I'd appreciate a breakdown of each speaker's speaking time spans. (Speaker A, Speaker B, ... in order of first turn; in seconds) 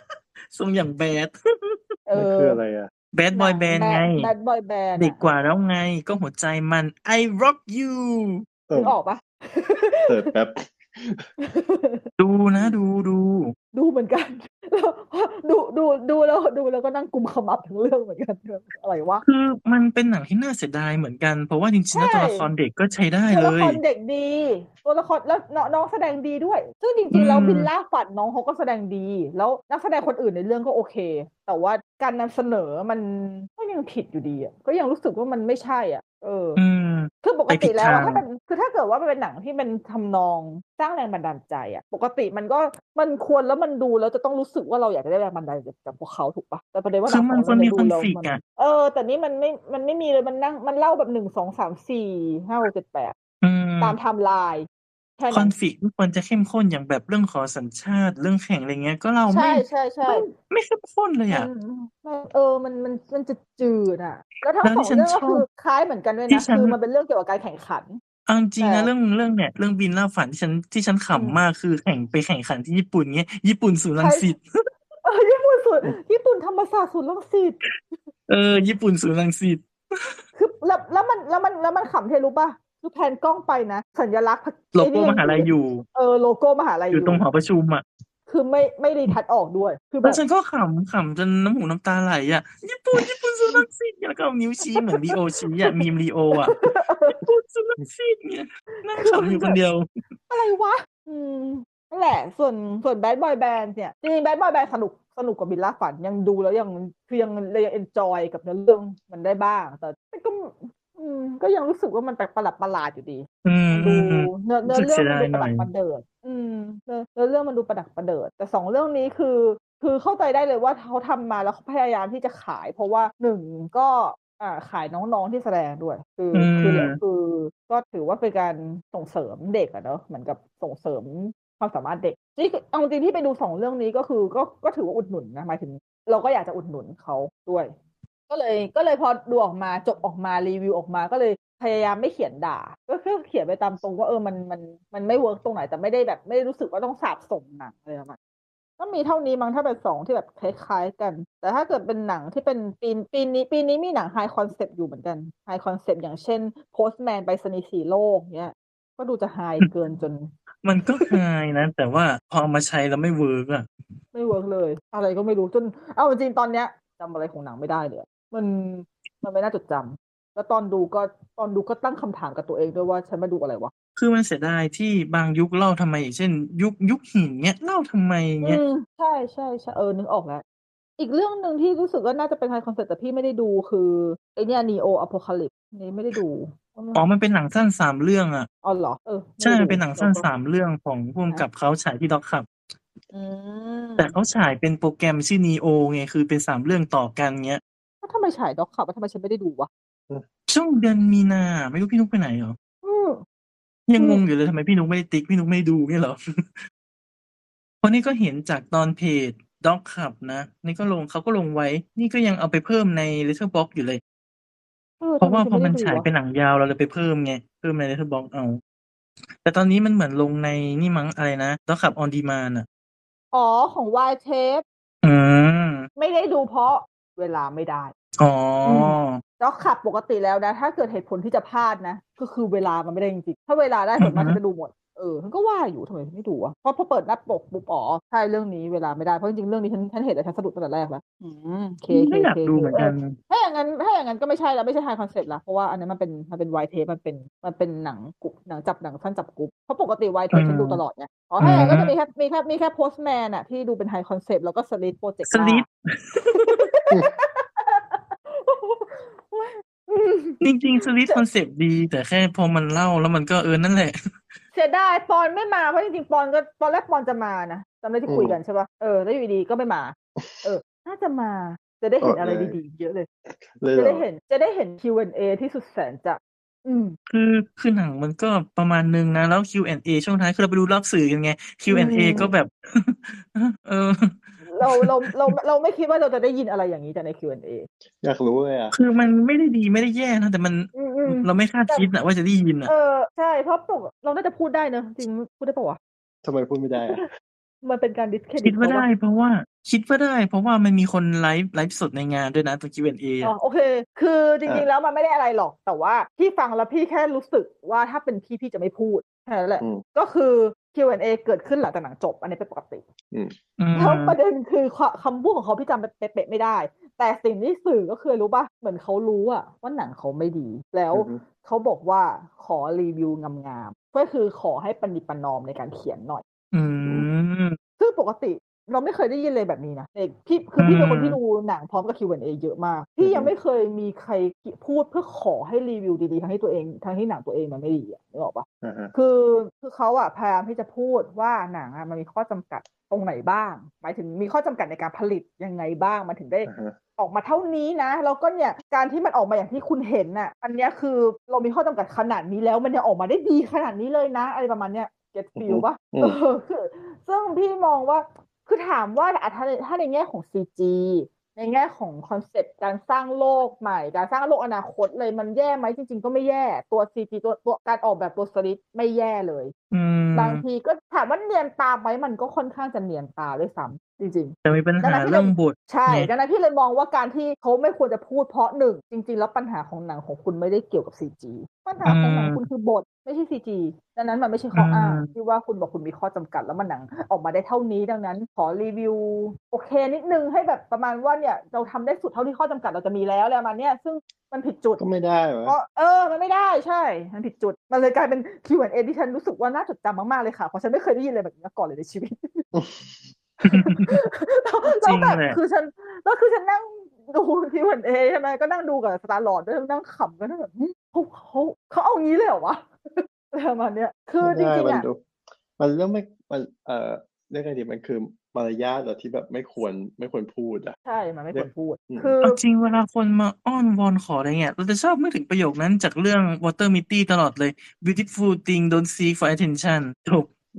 Speaker A: 0.5-1.8, 3.1-4.3, 5.0-8.5, 12.2-13.5, 19.2-23.8, 27.1-27.7, 36.6-38.2, 47.1-48.4, 53.4-54.0, 55.3-61.5, 64.6-65.5, 66.3-66.8, 68.3-74.4, 78.3-80.2, 84.7-85.8, 86.9-87.8, 90.0-99.9, 113.5-115.7, 126.3-127.0, 160.6-163.7, 174.0-178.6, 186.9-188.5, 189.4-192.5, 194.0-197.6, 200.5-202.6, 203.9-206.7, 207.8-214.0, 215.2-218.6, 219.4-222.7, 225.0-225.9, 228.2-229.2, 234.0-234.4, 241.9-243.2, 250.3-250.8, 251.4-251.9, 255.3-256.6, 260.4-263.9, 277.1-285.4, 288.7-292.7, 298.4-303.3, 313.6-314.2, 326.5-327.6, 330.6-331.2, 369.7-370.4, 374.4-376.1, 381.9-382.4, 384.6-385.1, 403.4-404.0, 404.8-405.4, 422.2-430.3
Speaker B: 2.1-2.6, 3.3-5.2, 8.7-10.2, 11.4-12.1, 13.7-19.2, 21.9-22.5, 23.3-36.6, 37.2-53.2, 53.8-54.7, 55.2-55.5, 59.3-60.3, 61.3-68.0, 68.6-68.9, 74.0-74.3, 75.0-77.6, 80.4-87.2, 88.3-90.2, 94.7-95.9, 96.4-97.2, 98.8-99.6, 100.3-137.7, 138.3-148.2, 148.8-160.3, 164.1-173.7, 178.4-180.4, 181.0-187.0, 188.6-190.3, 193.1-194.1, 198.0-199.7, 202.8-203.2, 215.0-216.1, 223.3-224.6, 226.0-227.9, 228.7-255.7, 256.3-261.2, 264.5-273.1, 273.7-277.0, 281.7-282.3, 284.5-287.7, 290.8-291.9, 292.7-295.8, 296.8-297.1, 297.6-298.9, 303.2-312.9, 313.8-326.2, 327.8-369.5, 370.1-394.8, 395.5-402.5, 403.4-414.9, 420.9-422.4
Speaker C: 2.1-2.9, 8.7-8.9, 10.1-11.3, 268.1-268.4, 270.2-270.4, 272.0-272.6, 273.3-274.1, 288.0-288.7, 296.2-297.1, 320.9-321.2, 333.0-333.3, 338.6-338.9, 346.5-346.8, 355.4-356.2, 394.8-395.6, 402.5-402.9, 414.2-415.1, 415.6-420.8, 421.3-422.1